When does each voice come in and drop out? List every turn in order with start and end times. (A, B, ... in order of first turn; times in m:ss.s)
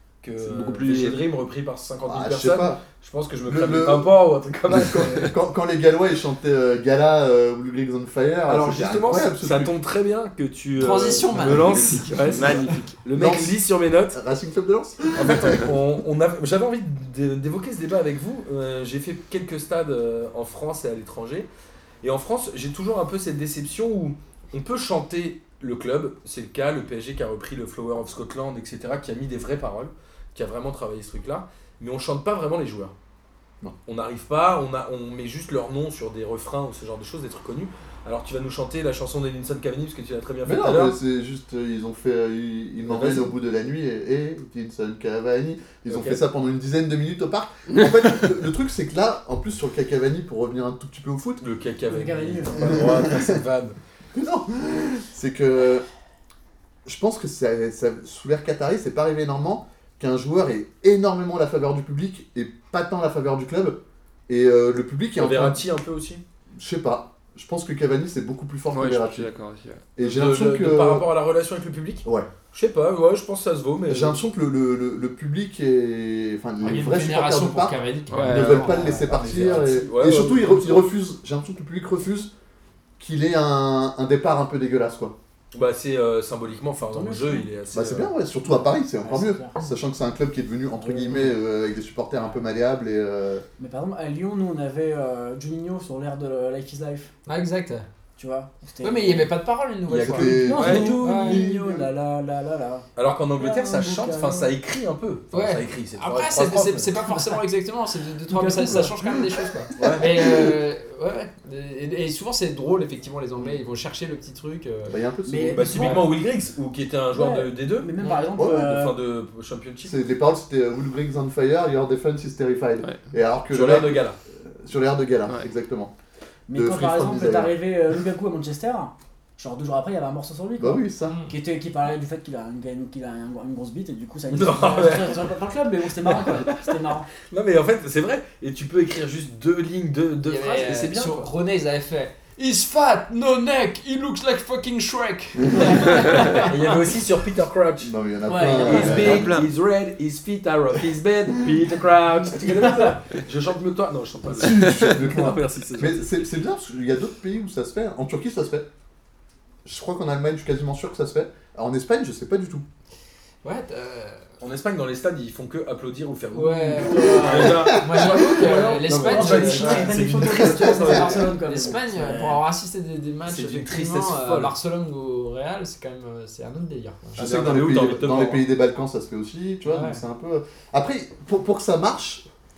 0:00.2-0:05.3 A
0:00.5-0:01.2 B
0:02.0-0:02.8 C
0:03.5-0:04.2 C
0:04.7-0:09.8 C
0:05.0-0:05.3 B
0:08.5-0:14.2 A
0:10.8-0:12.5 D
0:12.2-0:13.0 B
0:13.2-0:15.7 C
0:15.2-0:21.5 A
0:22.0-0:33.0 A
0:33.9-0:41.0 A
0:40.4-0:51.4 C
0:42.9-0:43.3 A
0:45.9-0:46.2 A
0:51.4-0:53.8 A
0:51.9-0:52.9 E
0:52.6-0:53.4 C
0:54.1-0:55.9 C
0:56.8-1:05.6 C
1:05.2-1:06.2 A
1:06.6-1:09.3 C
1:08.7-1:09.9 B
1:10.0-1:11.1 C
1:10.0-1:14.2 A
1:12.0-1:12.3 C
1:13.9-1:22.3 C
1:16.6-1:19.1 D
1:18.1-1:18.7 B
1:18.7-1:19.6 E
1:19.0-1:20.9 A
1:23.0-1:25.2 C
1:25.5-1:28.1 A
1:26.9-1:27.5 E
1:27.7-1:33.4 C
1:28.4-1:29.6 E
1:30.8-1:31.3 E
1:33.6-1:37.1 E
1:37.3-1:37.9 D
1:38.2-1:39.3 E
1:38.8-1:41.5 D
1:39.9-1:40.9 A
1:40.0-1:41.9 C
1:40.2-1:44.5 E
1:43.0-1:46.9 A
1:45.3-1:55.0 D
1:47.0-1:47.4 E
1:48.3-1:49.0 E
1:49.8-1:50.1 A
1:49.8-1:50.6 C
1:54.9-1:56.0 C
1:55.3-1:56.2 E
1:55.5-1:57.9 A
1:57.1-1:59.0 E
1:58.4-1:58.8 C
1:58.4-2:00.0 A
1:59.8-2:05.9 C
2:03.5-2:04.2 A
2:06.5-2:17.1 E
2:06.5-2:07.6 C
2:10.6-2:11.2 C
2:11.1-2:11.3 D
2:14.3-2:15.3 A
2:16.0-2:16.7 A
2:17.2-2:21.3 A
2:20.2-2:26.5 D
2:25.5-2:26.5 E
2:25.9-2:26.3 B
2:26.3-2:36.2 A
2:27.8-2:29.4 C
2:28.3-2:29.1 E
2:28.9-2:29.5 B
2:34.3-2:38.7 C
2:39.6-2:42.6 C
2:43.4-2:44.2 D
2:44.4-2:51.4 A
2:46.3-2:50.1 D
2:46.8-2:52.4 E
2:47.6-2:48.3 C
2:50.4-2:51.1 C
2:50.7-2:57.2 D
2:53.3-2:54.5 A
2:57.2-3:02.3 C
2:57.2-2:58.4 A
2:59.7-3:00.0 D